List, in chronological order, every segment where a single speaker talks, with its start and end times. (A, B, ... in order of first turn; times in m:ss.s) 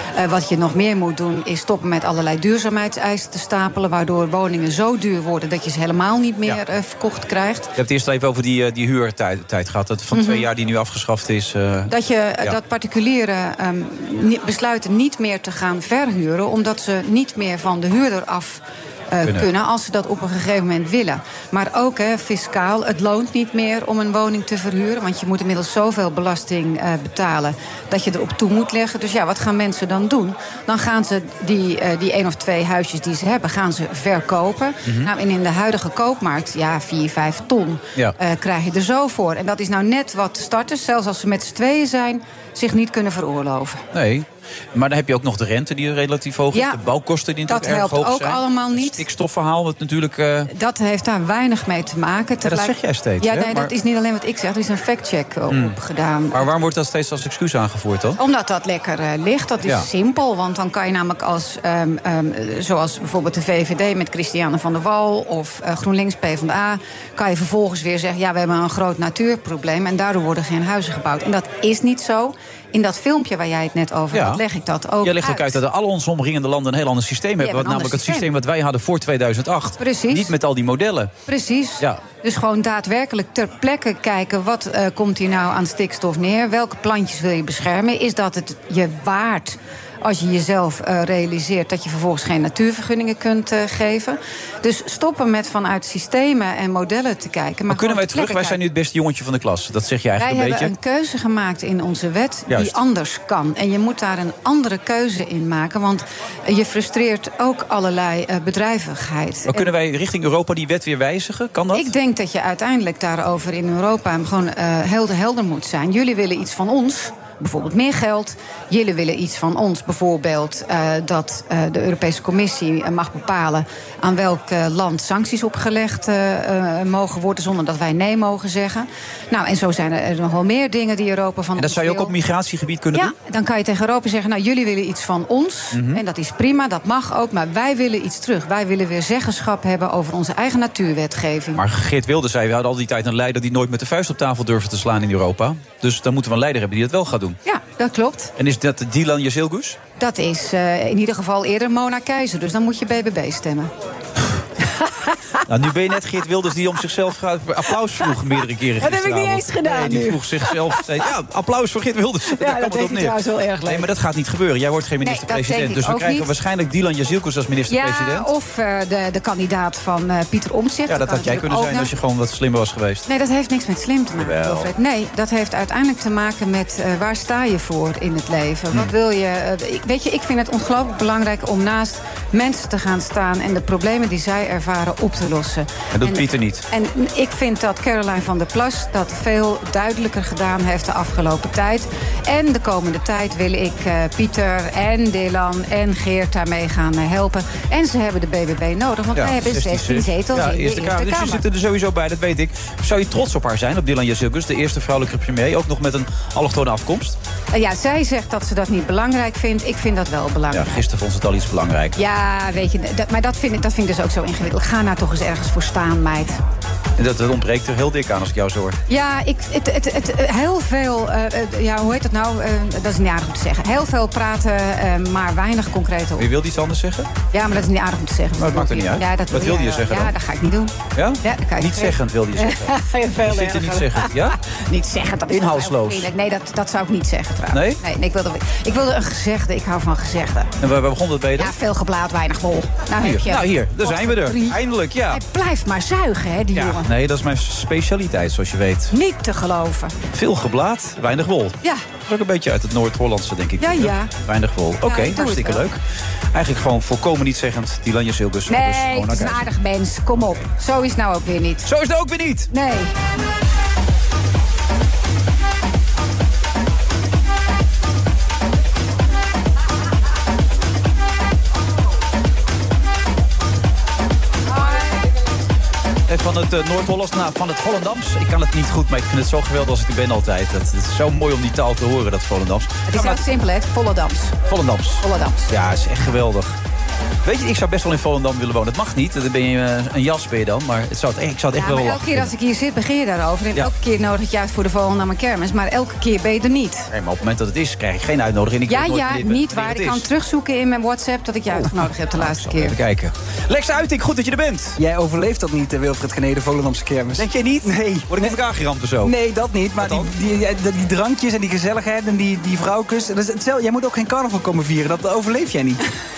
0:00.1-0:07.7 A
0:07.8-0:11.9 B
0:10.1-0:10.5 A
0:11.9-0:43.8 A
0:43.9-0:50.5 B
0:46.5-0:46.8 A
0:47.5-0:49.0 A
0:50.5-0:56.4 A
0:52.4-0:53.7 B
0:55.5-0:55.8 B
0:56.3-0:58.2 B
0:58.2-1:15.6 A
1:14.1-1:14.4 B
1:15.0-1:21.1 B
1:17.4-1:18.3 A
1:19.8-1:20.3 A
1:21.3-1:38.6 A
1:37.7-1:40.7 B
1:40.2-1:49.7 A
1:42.5-1:42.8 B
1:49.5-1:51.9 B
1:51.7-2:12.1 A
2:11.6-2:13.1 B
2:12.9-2:21.6 A
2:15.7-2:16.0 B
2:21.5-2:27.4 B
2:27.4-2:28.3 A
2:28.4-2:29.8 B
2:30.0-2:33.7 A
2:34.7-2:35.4 A
2:35.5-2:48.3 B
2:38.8-2:40.9 A
2:42.3-2:43.9 A
2:45.0-2:46.3 A
2:47.7-2:51.9 A
2:50.9-2:53.0 B
2:53.0-3:21.4 A
2:54.2-2:54.7 B
3:05.9-3:06.6 B
3:19.2-3:27.2 B
3:27.5-3:30.8 A
3:30.5-3:32.0 B
3:32.0-3:36.4 A
3:37.0-3:38.8 B
3:38.9-3:46.3 A
3:46.2-3:47.1 B
3:47.3-4:00.5 A
3:48.4-3:50.1 B
3:50.9-3:54.4 B
3:55.3-3:56.1 B
3:57.5-3:57.8 B
4:00.6-4:01.5 B
4:01.4-4:06.9 A
4:03.0-4:05.2 B
4:06.5-4:08.9 B
4:08.9-4:10.0 A
4:10.1-4:15.8 B
4:13.6-4:14.1 A
4:14.8-4:15.6 A
4:16.3-4:19.4 B
4:18.5-4:21.7 A
4:21.6-4:22.5 B
4:22.5-4:22.9 A
4:36.1-4:43.2 B
4:42.9-4:44.4 A
4:44.5-4:46.6 B
4:45.0-4:45.5 A
4:47.2-4:52.3 B
4:51.5-4:56.9 A
4:56.9-5:00.1 B
4:58.7-5:02.8 A
5:01.5-5:04.8 B
5:04.8-5:08.4 C
5:07.2-5:09.2 B
5:09.0-5:15.8 C
5:09.8-5:10.1 B